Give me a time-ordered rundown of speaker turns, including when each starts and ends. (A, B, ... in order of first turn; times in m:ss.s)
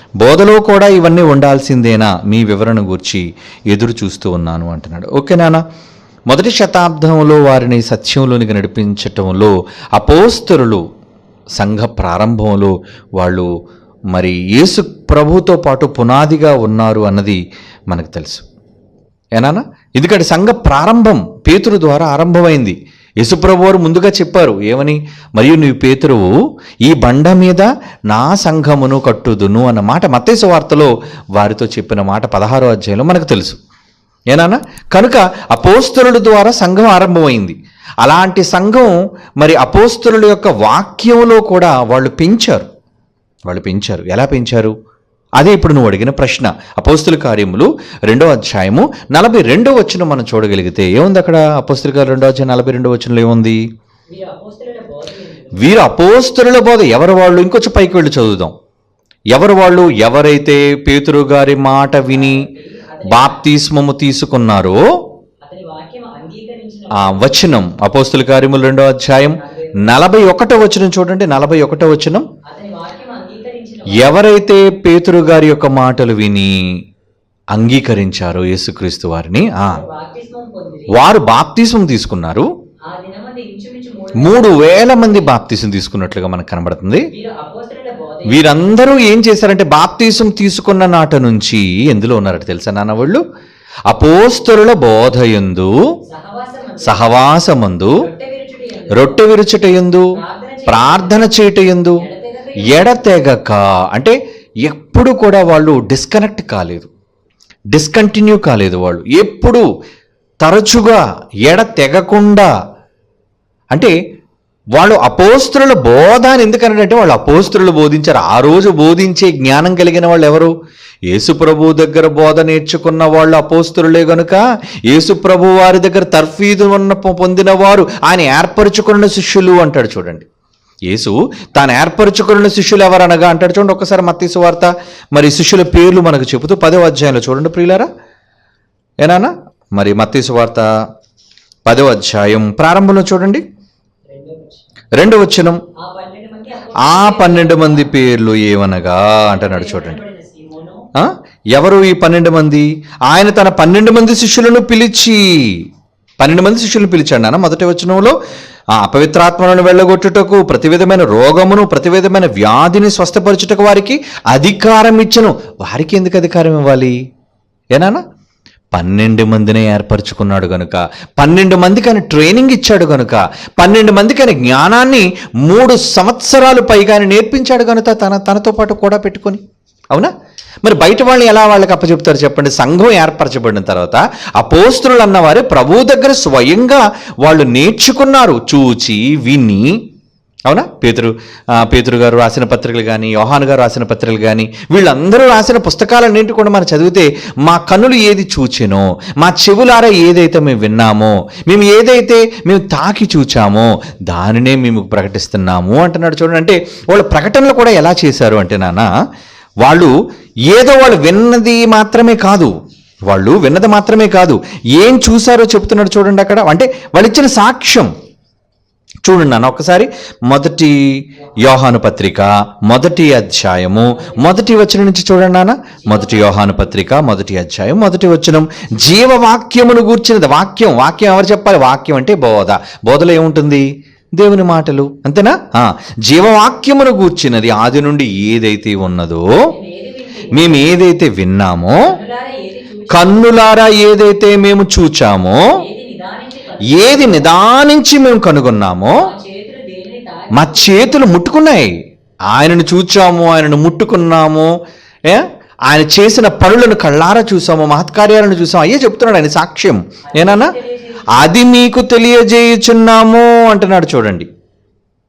0:00.2-0:05.6 A
0:06.3-0:10.8 A
0:11.6-0:13.5 A
0:14.1-0:18.4 A
0:19.4-0:26.3 A
0:26.8-0:33.6 A
0:34.3-0:42.7 A
0:43.5-0:44.7 A
0:45.4-0:53.6 A
0:54.1-0:55.7 B
0:55.6-0:58.5 A
0:59.3-1:02.5 A
1:02.1-1:03.4 B
1:03.1-1:04.8 A
1:05.4-1:07.3 B
1:07.0-1:12.2 A
1:09.4-1:09.8 B
1:12.4-1:14.1 B
1:13.9-1:16.5 A
1:17.5-1:19.8 A
1:19.7-1:21.0 B
1:20.9-1:22.5 A
1:22.9-1:25.3 B
1:24.2-1:27.1 A
1:27.1-1:28.5 B
1:28.3-1:33.2 A
1:33.9-1:35.7 A
1:36.1-1:37.0 B
1:36.8-1:38.0 A
1:38.0-1:39.3 B
1:38.9-1:40.1 A
1:40.1-1:41.3 B
1:40.7-1:42.0 A
1:42.0-1:43.0 B
1:42.7-1:46.9 A
1:47.7-1:49.6 A
1:50.4-1:52.5 A
1:54.8-2:00.5 A
2:01.1-2:10.2 A
2:10.9-2:17.9 A
2:19.0-2:20.7 A
2:21.6-2:23.4 A
2:24.1-2:24.6 B
2:24.9-2:25.6 A
2:25.8-2:28.0 B
2:26.8-2:30.0 A
2:29.2-2:30.8 B
2:30.9-2:35.7 A
2:36.2-2:38.2 A
2:38.8-2:47.0 A
2:47.7-2:48.0 A
2:48.7-3:00.1 A
3:00.6-3:09.8 A
3:10.5-3:28.9 A
3:29.6-3:29.9 A
3:30.5-3:32.5 A
3:33.1-3:37.9 A
3:39.0-3:40.8 A
3:41.4-3:59.2 A
3:43.9-3:44.4 B
3:45.8-3:46.5 B
3:59.5-4:00.6 B
4:00.3-4:01.8 A
4:01.8-4:03.4 B
4:02.9-4:05.4 A
4:05.5-4:07.3 B
4:06.7-4:09.0 A
4:09.0-4:11.0 B
4:10.3-4:11.7 A
4:12.3-4:14.5 A
4:15.0-4:20.5 A
4:20.1-4:21.3 B
4:21.1-4:24.3 A